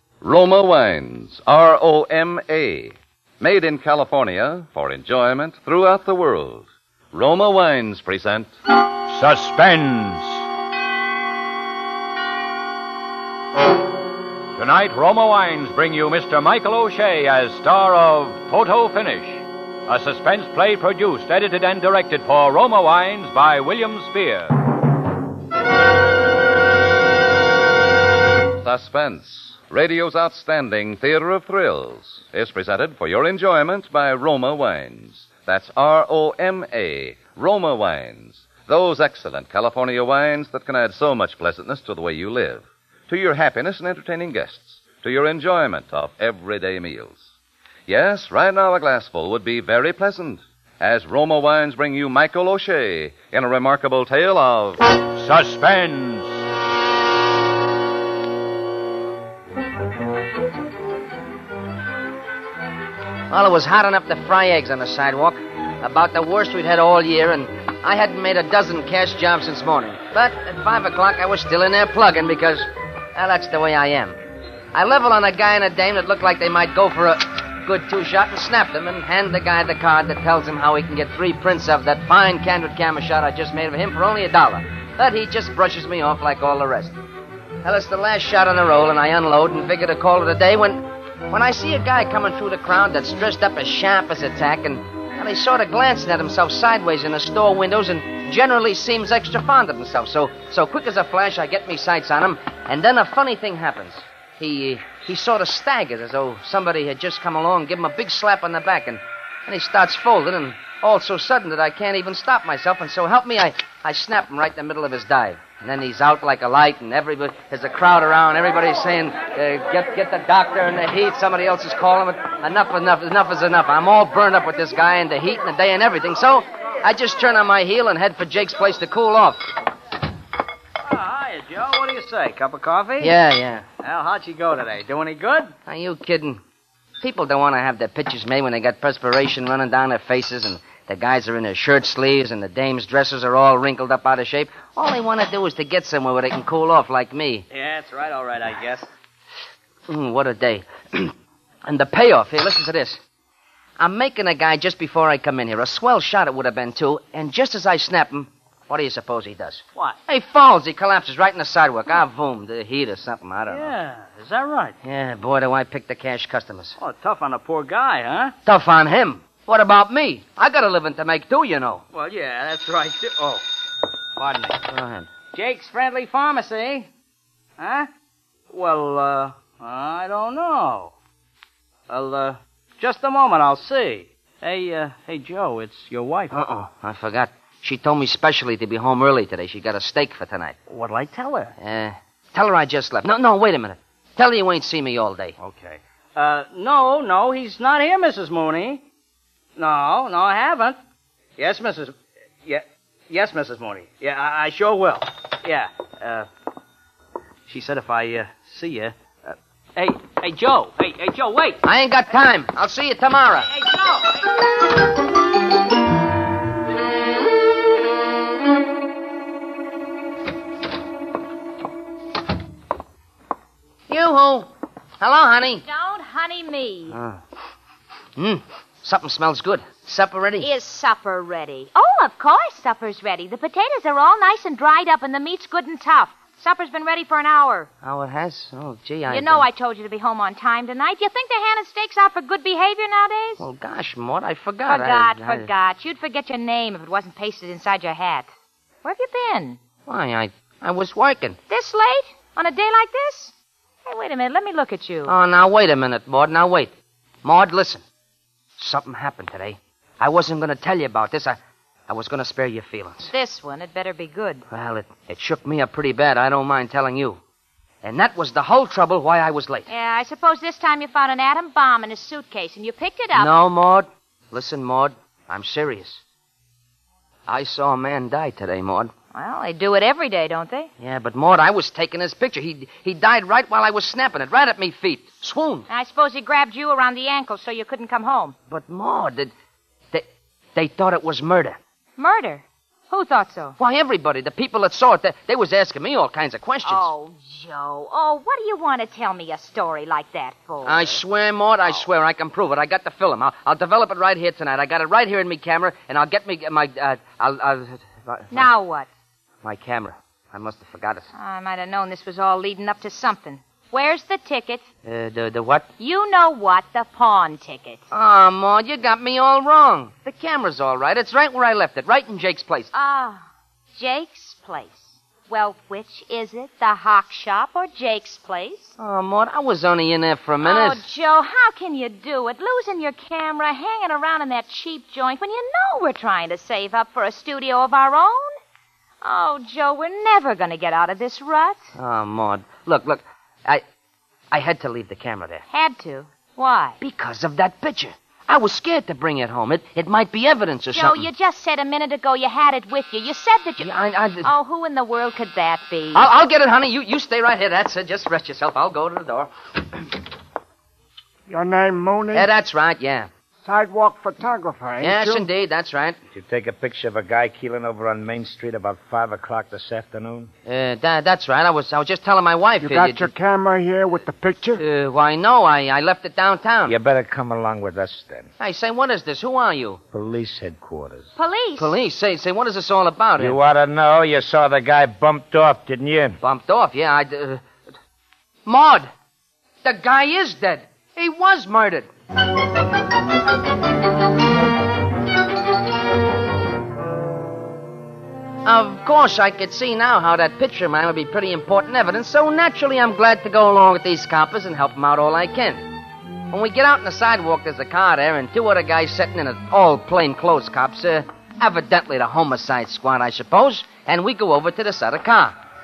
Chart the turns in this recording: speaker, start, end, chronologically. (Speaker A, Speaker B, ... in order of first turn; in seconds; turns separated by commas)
Speaker A: 0.2-8.5, Speaker B: 9.1-10.5, Speaker B: 14.6-24.5, Speaker A: 28.6-47.2, Speaker A: 47.9-54.8, Speaker B: 55.1-56.4, Speaker C: 63.3-74.2, Speaker C: 74.7-87.0, Speaker C: 87.6-129.4, Speaker D: 130.8-133.2, Speaker C: 133.0-133.6, Speaker D: 133.8-135.5, Speaker C: 135.7-136.4, Speaker C: 137.0-147.4, Speaker D: 147.5-148.9, Speaker C: 149.9-151.1, Speaker C: 151.7-153.0, Speaker C: 153.8-163.7, Speaker D: 163.5-164.8, Speaker C: 164.8-166.8, Speaker D: 166.8-168.3, Speaker C: 168.4-171.8, Speaker D: 171.9-173.4, Speaker D: 174.2-174.6, Speaker C: 174.7-175.1, Speaker D: 175.3-176.9, Speaker D: 177.6-177.9, Speaker D: 178.5-180.9, Speaker D: 181.9-186.3, Speaker C: 186.3-190.6, Speaker D: 190.7-191.5, Speaker C: 191.6-195.3, Speaker D: 195.4-198.8, Speaker D: 199.6-200.8, Speaker D: 201.4-201.9, Speaker D: 202.4-206.3, Speaker D: 207.5-211.6, Speaker C: 211.6-213.5, Speaker D: 213.4-214.3, Speaker C: 223.9-224.5, Speaker C: 225.0-225.6, Speaker E: 225.6-227.0, Speaker C: 226.9-227.2, Speaker C: 228.2-230.5, Speaker E: 230.4-237.7, Speaker C: 237.8-239.4, Speaker E: 239.1-243.4, Speaker C: 243.4-245.5, Speaker E: 244.7-248.3, Speaker E: 248.8-249.6, Speaker C: 249.8-251.4, Speaker E: 251.5-253.3, Speaker E: 253.8-255.1, Speaker C: 255.1-256.7, Speaker C: 257.2-257.8, Speaker C: 258.6-263.1, Speaker E: 263.1-264.4, Speaker C: 264.5-267.2, Speaker C: 267.8-269.7, Speaker E: 269.7-273.3, Speaker C: 273.1-276.0, Speaker C: 277.3-278.9, Speaker E: 279.1-280.7, Speaker C: 280.8-285.7, Speaker E: 285.7-288.4, Speaker C: 288.5-289.3, Speaker C: 290.6-291.6, Speaker E: 292.0-293.6, Speaker C: 293.6-296.9, Speaker E: 296.6-301.0, Speaker C: 300.6-308.5, Speaker E: 308.3-308.9, Speaker C: 309.4-311.1, Speaker E: 311.1-314.6, Speaker C: 314.8-315.7, Speaker E: 315.8-317.8, Speaker C: 317.9-322.7, Speaker E: 322.7-328.7, Speaker C: 328.8-330.8, Speaker E: 330.4-338.4, Speaker E: 339.0-341.7, Speaker C: 341.8-343.6, Speaker C: 344.3-345.4, Speaker E: 345.5-346.8, Speaker C: 346.8-351.1, Speaker E: 350.7-356.1, Speaker C: 353.6-354.3, Speaker C: 355.9-359.9, Speaker F: 361.3-362.3, Speaker C: 362.1-363.1, Speaker F: 363.4-365.3, Speaker C: 364.8-366.0, Speaker G: 366.1-370.3, Speaker C: 370.4-373.1, Speaker F: 372.6-374.6, Speaker C: 374.6-376.7, Speaker G: 376.6-378.3, Speaker C: 378.4-379.8, Speaker G: 379.9-381.1, Speaker E: 381.1-381.7, Speaker C: 381.6-383.4, Speaker G: 383.2-386.2, Speaker C: 386.2-387.4, Speaker C: 388.4-388.9, Speaker C: 389.6-391.9, Speaker C: 398.4-405.6, Speaker C: 406.3-415.4